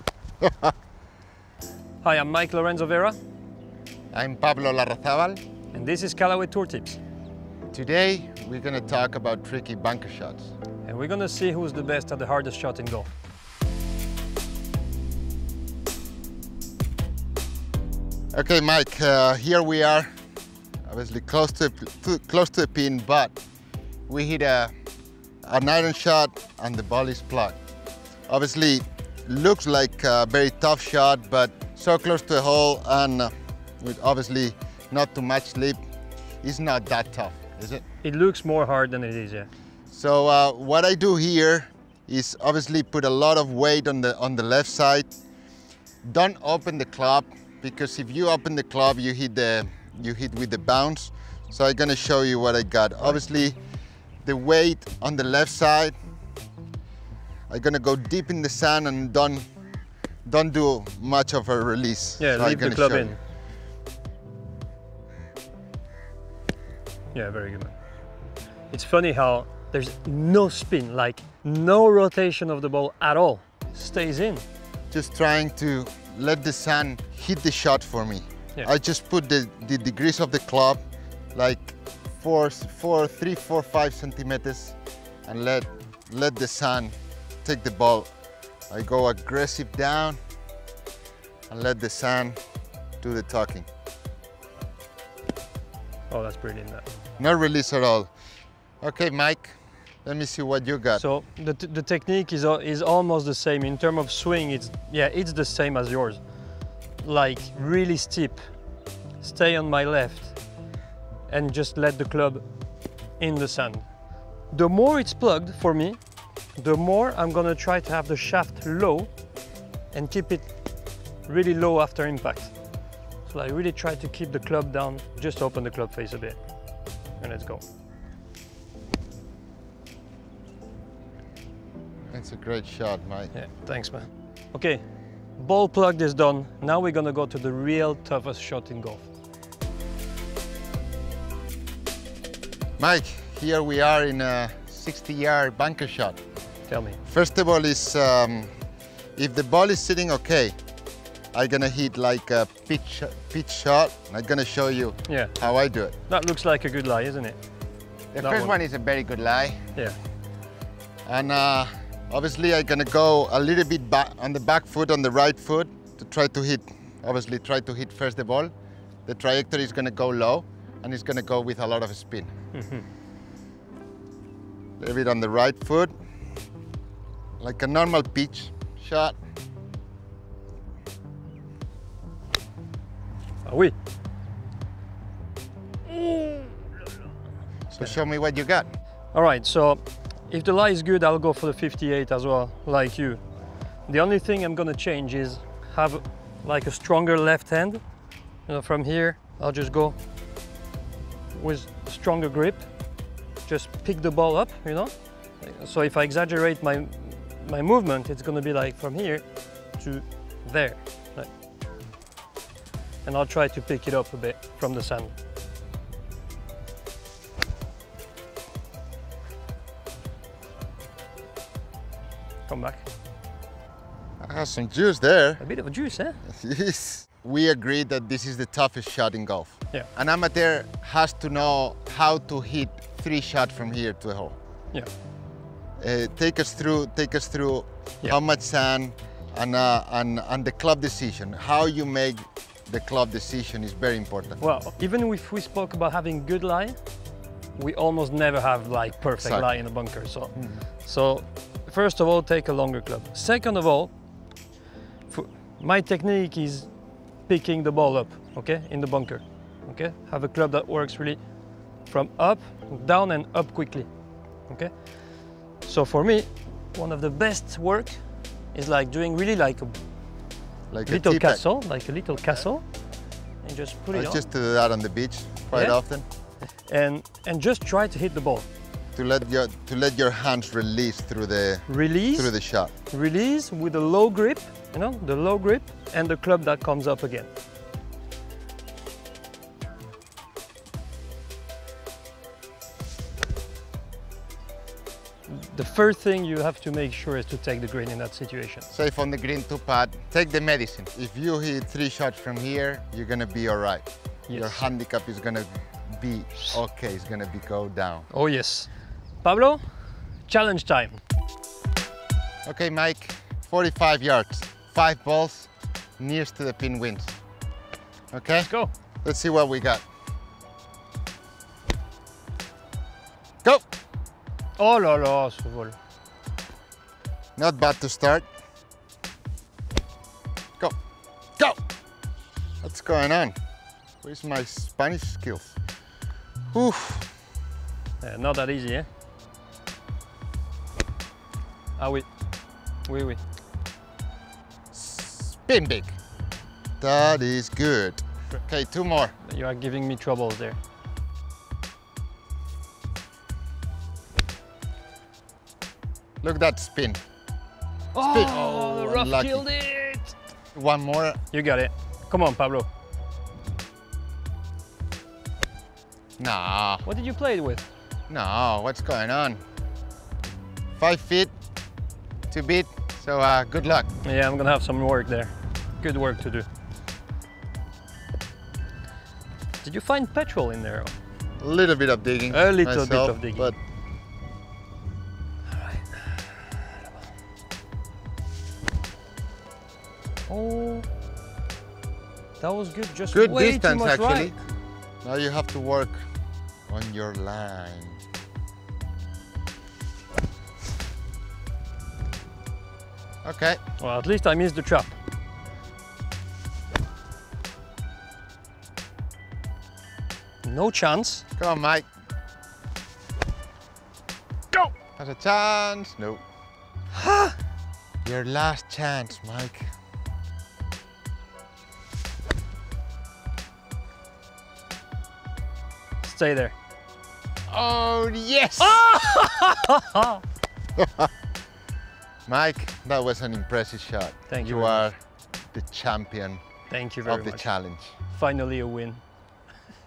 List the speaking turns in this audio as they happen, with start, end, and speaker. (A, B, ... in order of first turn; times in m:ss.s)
0:00.4-0:00.7 A
0:02.0-0:03.2 B
0:04.1-0:05.4 A
0:05.7-0:07.0 B
0:07.7-0:10.5 A
0:10.8-0:13.1 B
0:18.3-0:20.1 A
0:20.9-0:23.4 A
0:24.1-0:24.7 A
0:25.4-0:27.6 A
0:28.3-0:35.8 A
0:36.4-0:37.8 A
0:38.0-0:39.5 B
0:39.9-0:45.1 A
0:46.0-0:53.6 A
0:54.2-0:56.0 A
0:57.5-0:59.4 A
1:00.3-1:03.2 A
1:02.2-1:03.2 B
1:07.1-1:07.7 B
1:08.7-1:14.4 B
1:14.9-1:20.8 A
1:21.3-1:28.1 A
1:28.7-1:30.2 A
1:31.5-1:32.4 A
1:33.0-1:33.7 A
1:36.1-1:36.9 B
1:37.2-1:38.1 A
1:38.8-1:41.0 A
1:41.0-1:46.3 B
1:47.0-1:48.4 B
1:49.2-1:50.4 B
1:51.3-1:52.5 B
1:53.2-1:56.0 B
1:56.6-1:59.1 B
1:59.9-2:00.5 B
2:01.2-2:02.6 B
2:03.3-2:06.4 B
2:07.2-2:07.6 B
2:12.1-2:13.3 A
2:13.3-2:14.8 B
2:15.4-2:19.1 B
2:22.8-2:26.2 A
2:26.7-2:27.0 B
2:27.1-2:28.5 A
2:29.2-2:30.6 A
2:31.3-2:36.0 A
2:35.1-2:35.4 B
2:36.1-2:37.4 B
2:38.1-2:39.6 A
2:38.2-2:38.6 B
2:41.1-2:48.5 A
2:49.1-2:52.3 A
2:52.5-2:52.8 B
2:54.8-2:55.9 A
2:57.4-2:59.2 A
3:03.4-3:03.7 B
3:05.9-3:06.7 B
3:07.7-3:08.7 A
3:09.1-3:13.2 B
3:13.9-3:17.8 B
3:18.5-3:20.0 B
3:21.3-3:22.7 B
3:23.4-3:31.3 B
3:33.0-3:35.2 B
3:42.5-3:42.9 B
3:44.2-3:45.4 A
3:45.4-3:46.2 B
3:46.3-3:54.4 A
3:55.8-4:04.4 A
4:04.4-4:06.9 B
4:07.6-4:13.9 B
4:09.2-4:09.7 A
4:10.4-4:10.6 A
4:15.1-4:16.7 B
4:17.2-4:21.3 B
4:21.8-4:23.9 B
4:24.5-4:29.8 B
4:30.7-4:31.4 A
4:30.9-4:32.7 B
4:33.4-4:34.2 B
4:33.9-4:36.0 A
4:35.5-4:35.8 B
4:36.6-4:38.5 B
4:39.0-4:42.7 A
4:41.7-4:47.3 B
4:55.3-4:58.7 B
4:58.7-5:08.1 A
5:04.3-5:04.7 B
5:08.1-5:11.0 B
5:12.4-5:17.2 A
5:18.1-5:18.5 A
5:19.0-5:19.8 A
5:24.6-5:25.8 B
5:27.4-5:28.3 A
5:32.6-5:33.3 A
5:34.0-5:35.6 A
5:36.5-5:37.1 A
5:38.0-5:38.9 B
5:41.8-5:42.1 B
5:42.8-5:43.2 B
5:44.7-5:46.0 A
5:46.8-5:49.1 A
5:49.2-5:50.6 B
5:56.2-5:57.0 A
5:57.9-6:00.1 B
5:58.0-5:59.5 A
6:00.6-6:01.2 A
6:01.3-6:02.7 B
6:06.2-6:06.8 A
6:06.8-6:07.6 B
6:08.1-6:09.4 A
6:10.8-6:11.3 A
6:12.3-6:13.9 A
6:14.0-6:16.5 B
6:19.6-6:20.9 B
6:21.4-6:23.6 A
6:22.3-6:23.5 B
6:25.5-6:26.4 B
6:30.3-6:30.9 B
6:32.4-6:34.4 B
6:33.1-6:34.4 A
6:35.0-6:36.0 A
6:36.7-6:38.0 A
6:43.2-6:43.6 A
6:43.8-6:45.0 B
6:50.4-6:51.2 B
6:51.4-6:51.9 A
6:55.0-6:56.2 A
6:56.9-6:57.4 B
6:58.0-6:59.7 A
7:06.0-7:06.5 B
7:07.5-7:08.8 A
7:08.6-7:10.2 B
7:10.8-7:11.1 A
7:12.3-7:15.0 A
7:14.3-7:14.8 B
7:15.5-7:16.4 A
7:16.7-7:17.5 B
7:17.0-7:17.9 A
7:18.1-7:19.0 B